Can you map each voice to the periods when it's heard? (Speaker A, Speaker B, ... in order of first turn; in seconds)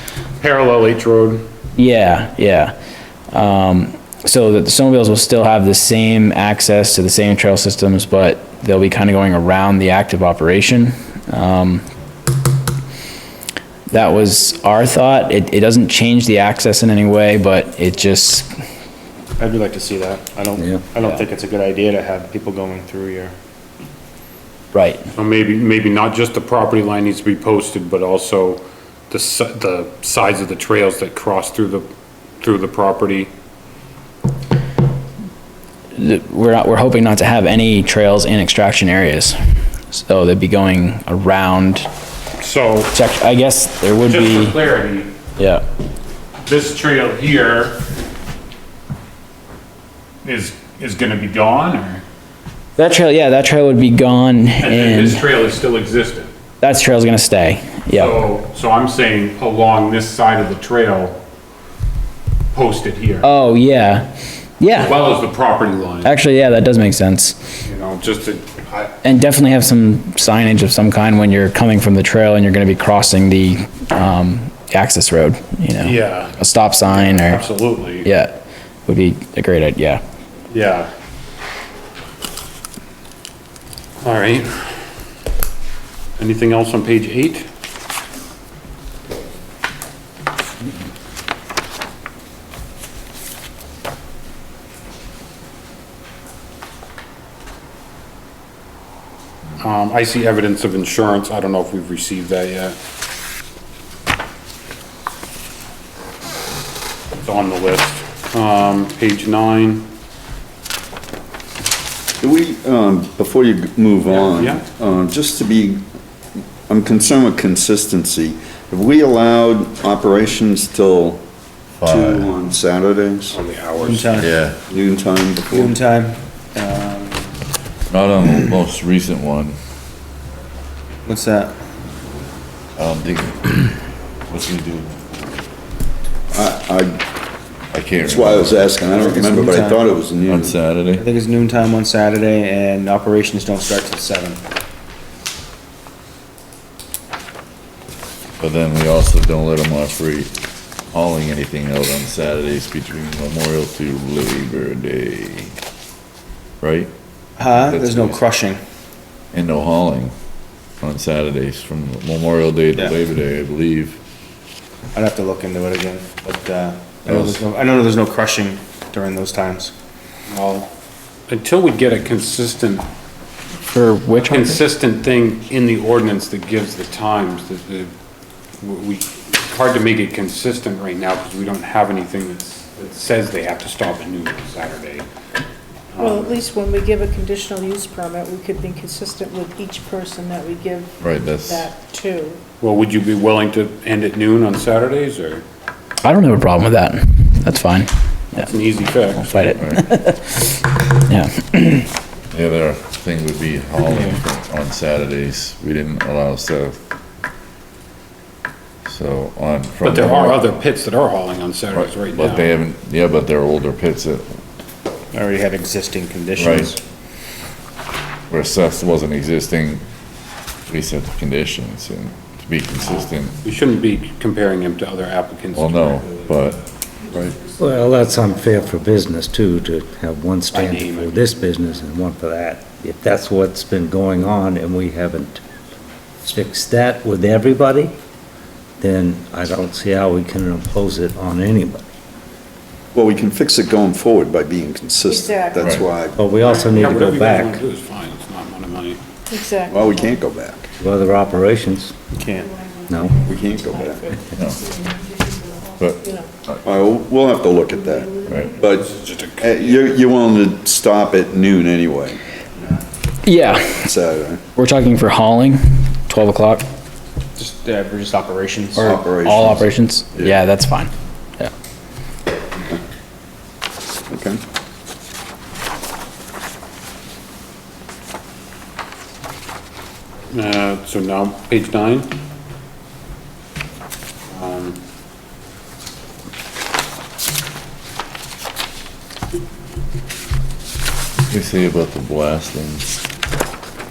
Speaker A: 0.4-1.4, 25.1-31.9, 32.4-33.3, 42.4-42.9, 44.1-45.1, 46.4-47.8, 50.2-52.0, 54.6-56.3, 57.9-61.2, 62.5-63.3, 64.7-66.1, 67.6-68.9, 75.8-76.3, 76.9-78.0, 80.5-80.9, 84.0-84.8, 86.2-87.5, 99.6-102.8, 107.2-109.9, 114.1-114.6, 123.3-124.2, 170.3-170.7, 171.3-172.9, 174.3-177.9, 178.6-185.1, 185.9-186.4, 192.6-195.4, 198.3-199.6, 209.8-212.5, 222.8-226.3, 230.5-231.3, 246.4-249.0, 258.8-259.9, 280.3-282.1, 284.3-284.8
Speaker B: 1.8-2.7, 3.3-11.8, 13.9-18.5, 24.7-25.0, 35.9-39.4, 39.9-41.9, 42.9-44.5, 45.4-45.6, 52.8-55.2, 56.6-58.2, 63.2-64.1, 64.6-64.9, 66.0-67.3, 69.0-77.4, 78.0-78.3, 78.8-80.0, 173.7-174.6, 196.0-198.5, 199.2-201.9, 263.2-263.8, 264.6-266.6, 268.8-271.5
Speaker C: 19.4-23.3, 123.8-124.4, 125.5-127.3, 131.0-131.6, 138.9-139.8, 140.9-144.4, 157.4-158.6, 164.9-169.7, 215.1-216.8, 252.2-252.5, 267.4-268.9
Speaker D: 20.6-20.8, 227.5-235.4, 236.2-237.9, 238.8-241.9, 246.1-247.6, 250.8-251.9, 252.9-253.2
Speaker E: 112.2-115.8, 116.7-121.2, 121.8-123.4, 124.7-125.7, 136.3-137.0, 138.0-140.6, 242.9-246.2, 249.7-250.7, 253.2-254.1, 256.6-262.2, 263.8-264.4, 268.8-270.3, 274.1-274.4
Speaker F: 121.8-122.4, 124.1-124.7, 127.9-129.6, 132.8-133.6, 134.3-135.0, 137.7-138.8, 140.2-141.0, 148.4-150.3, 150.9-155.5, 156.6-156.9, 157.4-158.2, 159.3-160.1, 160.8-164.0, 167.0-167.4, 191.0-191.7, 199.6-199.8, 202.3-206.8, 208.8-210.4, 211.7-214.2, 216.4-216.7, 218.3-219.8, 220.7-223.4, 225.5-226.6, 227.1-227.4, 254.3-254.6, 255.8-256.6, 258.2-258.5, 291.3-292.9
Speaker G: 186.0-192.4, 245.1-245.8, 249.3-250.2, 252.5-256.3, 257.7-258.8